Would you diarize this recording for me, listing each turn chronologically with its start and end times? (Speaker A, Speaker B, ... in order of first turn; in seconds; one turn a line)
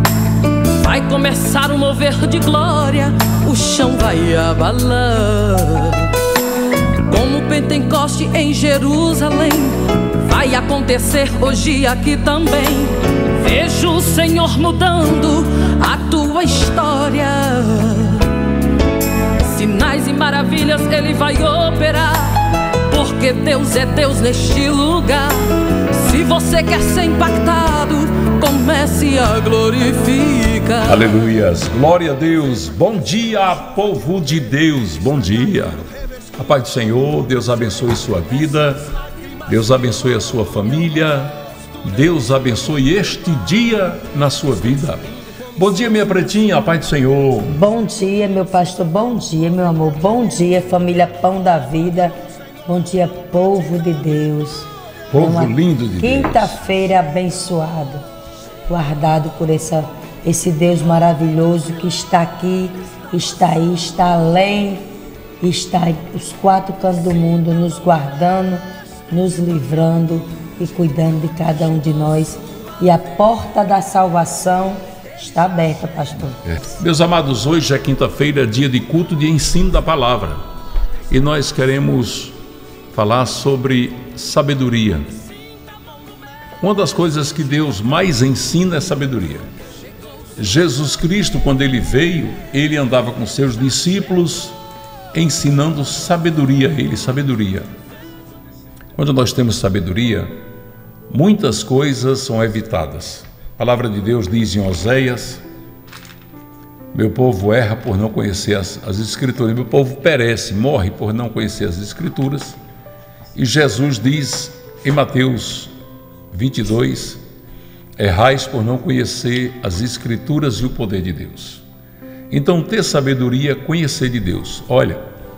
Speaker A: 0.8-6.1
Speaker A: 7.1-18.3
Speaker A: 19.4-31.0
Speaker B: 30.8-35.8
Speaker B: 36.4-38.8
Speaker B: 39.5-45.0
Speaker B: 45.5-47.6
Speaker C: 47.5-52.1
Speaker C: 52.6-58.0
Speaker B: 55.1-56.6
Speaker C: 58.6-64.8
Speaker C: 65.4-76.6
Speaker B: 76.5-80.4
Speaker B: 81.1-82.3
Speaker B: 82.9-85.1
Speaker B: 86.6-89.5
Speaker B: 90.4-94.6
Speaker B: 95.1-97.7
Speaker B: 99.0-100.3
Speaker B: 101.1-105.4
Speaker B: 106.9-112.6
Speaker B: 113.3-115.7
Speaker B: 116.3-117.2
Speaker B: 118.0-121.6
Speaker B: 122.3-125.0